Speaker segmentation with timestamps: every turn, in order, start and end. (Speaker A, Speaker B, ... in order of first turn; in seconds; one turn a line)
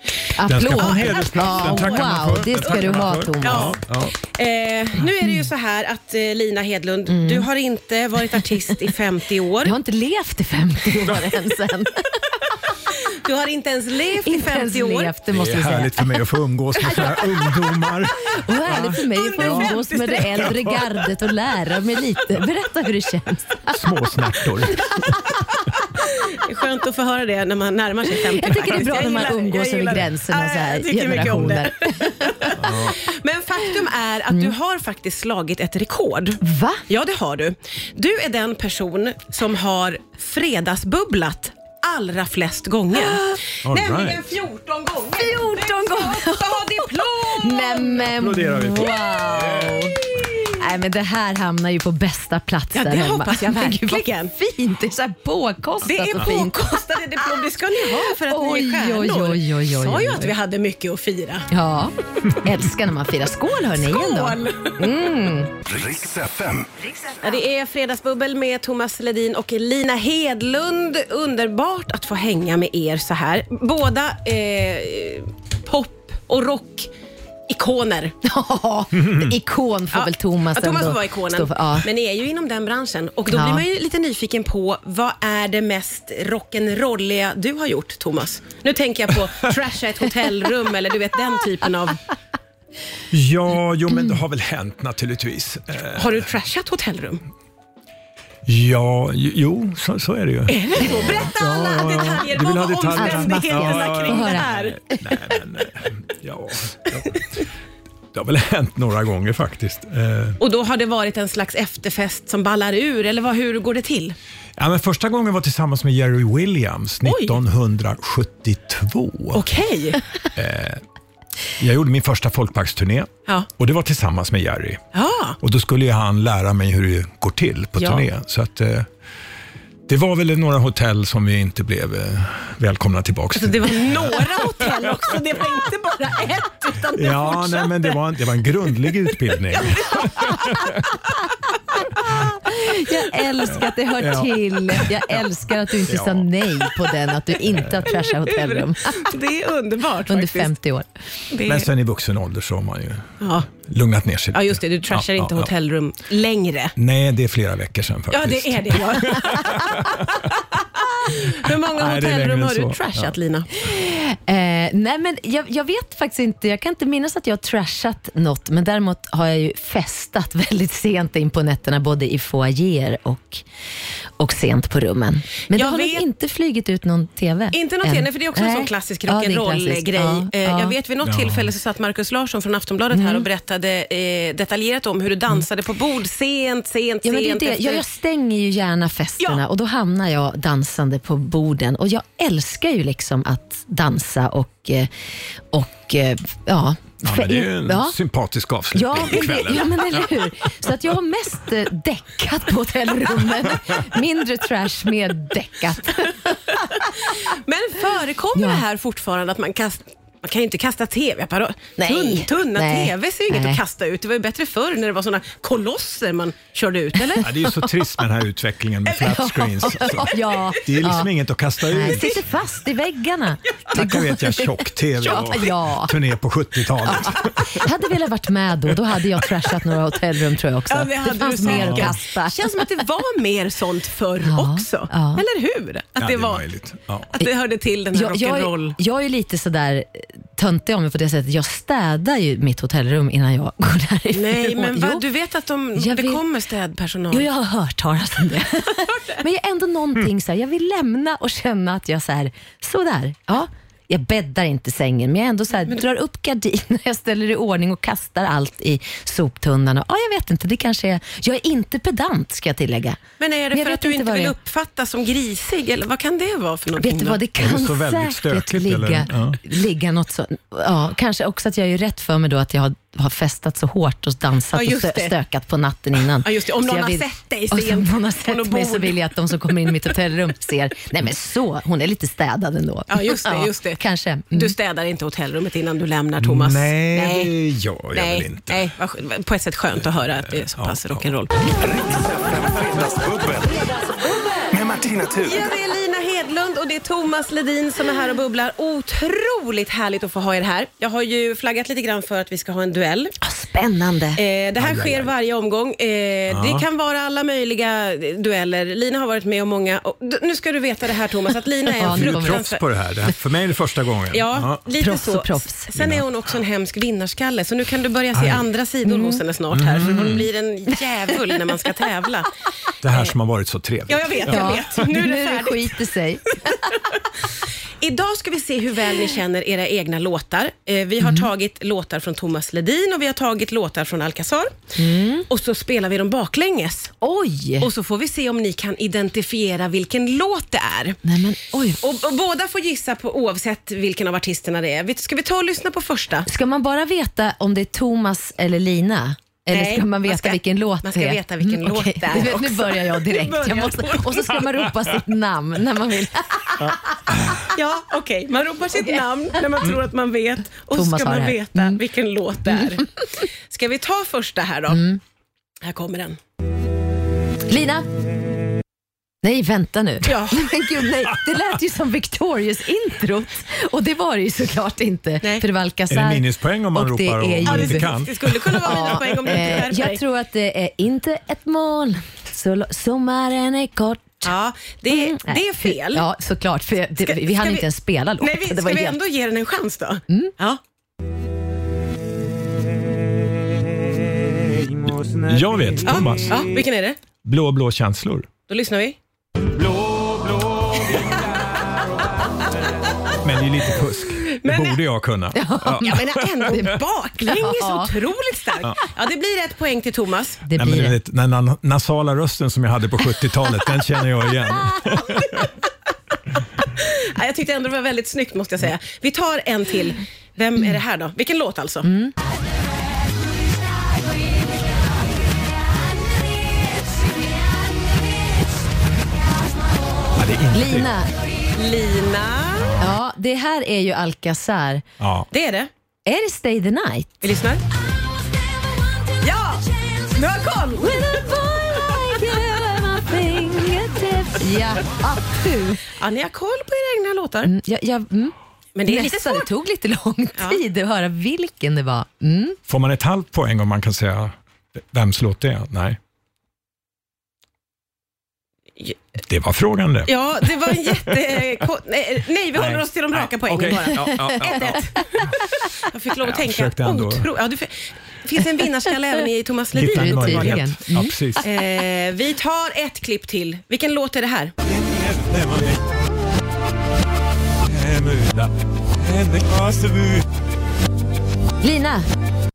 Speaker A: 0.3-3.7
Speaker B: 0.4-4.1
Speaker C: 0.6-9.7
Speaker A: 7.1-7.5
Speaker A: 8.4-8.7
Speaker A: 9.6-12.3
Speaker C: 12.9-15.1
Speaker A: 14.2-16.2
Speaker B: 15.3-19.8
Speaker A: 16.8-17.2
Speaker A: 18.2-23.8
Speaker C: 18.7-20.8
Speaker B: 23.7-25.2
Speaker C: 26.0-48.1
Speaker A: 28.3-32.8
Speaker B: 32.5-33.0
Speaker A: 36.4-36.8
Speaker A: 42.9-43.4
Speaker B: 43.6-44.2
Speaker A: 45.2-56.8
Speaker B: 48.0-49.9
Speaker C: 50.1-50.5
Speaker C: 52.7-54.3
Speaker C: 55.8-61.5
Speaker A: 58.2-60.3
Speaker A: 61.5-65.5
Speaker C: 63.7-65.0
Speaker D: 65.6-67.1
Speaker C: 67.2-76.9
Speaker C: 77.5-78.1
Speaker A: 78.2-81.9
Speaker B: 79.0-79.3
Speaker C: 79.9-92.0
Speaker A: 83.3-83.6
Speaker B: 93.1-96.3
Speaker A: 93.9-94.2
Speaker C: 96.0-97.2
Speaker B: 98.5-107.2
Speaker C: 100.5-104.8
Speaker A: 103.0-105.0
Speaker B: 108.1-110.4
Speaker C: 110.4-114.1
Speaker B: 114.6-119.4
Speaker C: 117.0-117.3
Speaker C: 119.3-120.0
Speaker B: 120.3-120.8
Speaker B: 121.6-124.8
Speaker C: 124.9-125.4
Speaker B: 125.4-128.9
Speaker C: 127.8-128.0
Speaker B: 129.9-134.7
Speaker C: 133.3-138.1
Speaker B: 136.9-140.9
Speaker C: 139.5-140.5
Speaker A: 142.1-149.1
Speaker B: 144.0-145.2
Speaker B: 145.8-146.3
Speaker C: 147.9-150.5
Speaker A: 150.1-150.9
Speaker C: 151.3-151.7
Speaker B: 151.4-155.5
Speaker C: 153.2-153.5
Speaker C: 154.3-156.8
Speaker B: 156.8-160.3
Speaker C: 158.1-163.5
Speaker B: 161.2-163.1
Speaker A: 163.6-173.4
Speaker A: 174.2-180.7
Speaker C: 175.5-176.0
Speaker C: 177.5-187.8
Speaker B: 181.0-181.5
Speaker A: 182.9-183.2
Speaker A: 187.0-194.9
Speaker A: 195.5-197.9
Speaker B: 197.0-200.0
Speaker A: 198.7-207.1
Speaker C: 206.8-217.3
Speaker A: 208.3-208.6
Speaker A: 211.8-213.6
Speaker A: 217.1-217.7
Speaker B: 217.2-222.2
Speaker C: 219.0-220.4
Speaker A: 219.1-221.1
Speaker A: 221.7-225.9
Speaker C: 221.9-222.2
Speaker B: 223.7-227.6
Speaker C: 225.1-225.4
Speaker A: 226.8-232.6
Speaker C: 230.7-236.4
Speaker B: 231.4-231.9
Speaker A: 234.2-235.2
Speaker B: 236.0-237.1
Speaker C: 237.1-238.8
Speaker A: 237.9-245.0
Speaker C: 244.1-247.3
Speaker A: 245.8-246.2
Speaker A: 247.1-263.0
Speaker C: 248.9-249.2
Speaker C: 263.2-267.2
Speaker A: 263.5-264.3
Speaker A: 266.7-284.5
Speaker B: 267.4-269.4
Speaker C: 274.5-275.1
Speaker C: 276.2-279.0
Speaker C: 282.9-283.8
Speaker C: 284.3-287.3
Speaker B: 286.2-288.7
Speaker C: 287.9-291.3
Speaker B: 290.5-291.1
Speaker D: 291.5-294.0
Speaker D: 294.5-295.4
Speaker C: 295.2-303.2
Speaker A: 303.2-304.2
Speaker C: 304.1-312.6
Speaker B: 304.6-305.1
Speaker B: 306.3-306.6
Speaker A: 311.8-312.4
Speaker B: 311.8-314.6
Speaker C: 314.1-322.3
Speaker A: 314.8-315.7
Speaker B: 315.7-316.1
Speaker B: 318.1-318.4
Speaker A: 318.8-319.2
Speaker B: 319.5-320.3
Speaker B: 322.8-324.6
Speaker C: 323.9-325.8
Speaker A: 324.3-326.8
Speaker C: 327.8-334.6
Speaker A: 331.0-331.3
Speaker A: 334.8-335.3
Speaker C: 335.3-336.9
Speaker A: 337.0-337.7
Speaker C: 337.6-341.0
Speaker A: 341.0-341.8
Speaker C: 341.8-346.3
Speaker A: 346.2-357.4
Speaker C: 349.5-354.5
Speaker B: 357.1-357.4
Speaker C: 357.5-364.8
Speaker A: 360.7-361.8
Speaker A: 364.7-365.0
Speaker C: 365.6-366.2
Speaker A: 367.5-367.9
Speaker A: 369.2-377.9
Speaker C: 370.0-370.5
Speaker B: 375.9-378.6
Speaker C: 377.4-380.0
Speaker A: 378.6-384.3
Speaker C: 384.2-386.1
Speaker A: 384.9-389.0
Speaker C: 387.0-387.6
Speaker C: 388.2-390.6
Speaker B: 394.8-396.4
Speaker C: 395.8-397.0
Speaker B: 397.2-398.3
Speaker C: 398.5-399.0
Speaker B: 399.8-400.2
Speaker B: 403.2-406.6
Speaker C: 404.2-404.8
Speaker A: 405.3-406.8
Speaker C: 405.8-410.4
Speaker A: 407.3-407.9
Speaker A: 410.4-410.9
Speaker B: 410.5-415.5
Speaker C: 416.7-421.9
Speaker A: 421.8-422.1
Speaker B: 430.1-430.9
Speaker A: 430.5-431.1
Speaker C: 431.5-432.8
Speaker A: 432.8-434.8
Speaker B: 435.0-435.3
Speaker C: 435.3-435.7
Speaker A: 436.1-437.2
Speaker C: 437.2-437.6
Speaker C: 439.2-441.0
Speaker A: 440.8-445.9
Speaker C: 446.0-447.5
Speaker A: 447.4-452.6
Speaker C: 448.8-449.5
Speaker B: 452.7-454.4
Speaker B: 454.9-456.0
Speaker B: 459.3-461.1
Speaker C: 460.1-470.6
Speaker B: 462.5-464.9
Speaker B: 466.2-467.3
Speaker B: 469.7-471.5
Speaker A: 469.8-471.2
Speaker C: 471.4-474.5
Speaker B: 474.6-475.9
Speaker B: 477.6-480.2
Speaker A: 481.6-482.1